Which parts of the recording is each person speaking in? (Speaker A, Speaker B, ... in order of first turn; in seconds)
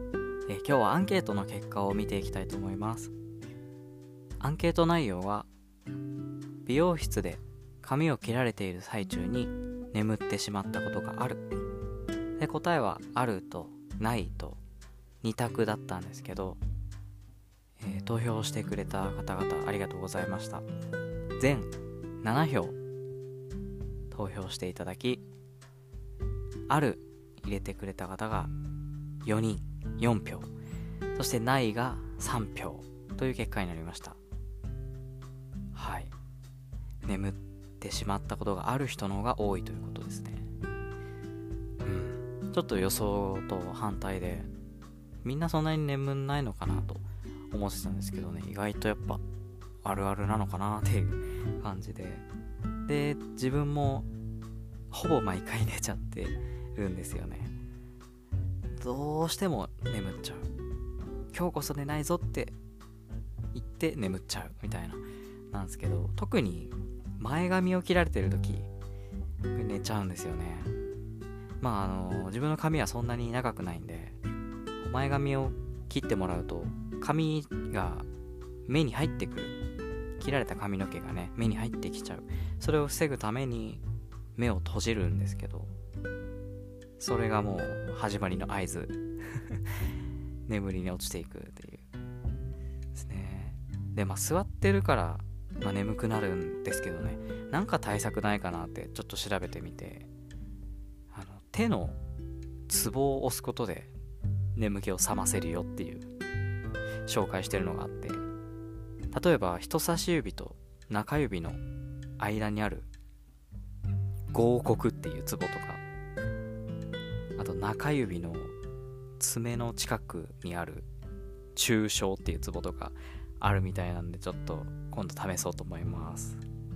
Speaker A: 0.5-3.1, 4.4-5.5, 6.7-11.4, 12.4-14.6, 15.2-16.6, 17.8-20.7, 21.4-22.8, 24.1-25.2, 26.7-28.5, 29.2-30.5, 31.1-34.2, 35.7-36.1, 37.0-40.5, 41.8-44.5, 45.2-49.2, 49.8-52.2, 52.9-54.1, 54.9-57.5, 58.8-60.5, 61.3-62.5, 63.5-68.7, 69.5-70.7, 71.6-74.2, 74.8-78.1, 78.7-79.6, 80.2-83.8, 84.4-85.7, 87.0-89.7, 90.5-91.9, 92.9-100.1, 101.1-102.0, 102.7-103.9, 104.6-106.1, 107.1-108.2, 109.1-111.6, 112.2-112.9, 114.3-115.8, 117.4-118.5, 119.2-120.9, 121.5-126.4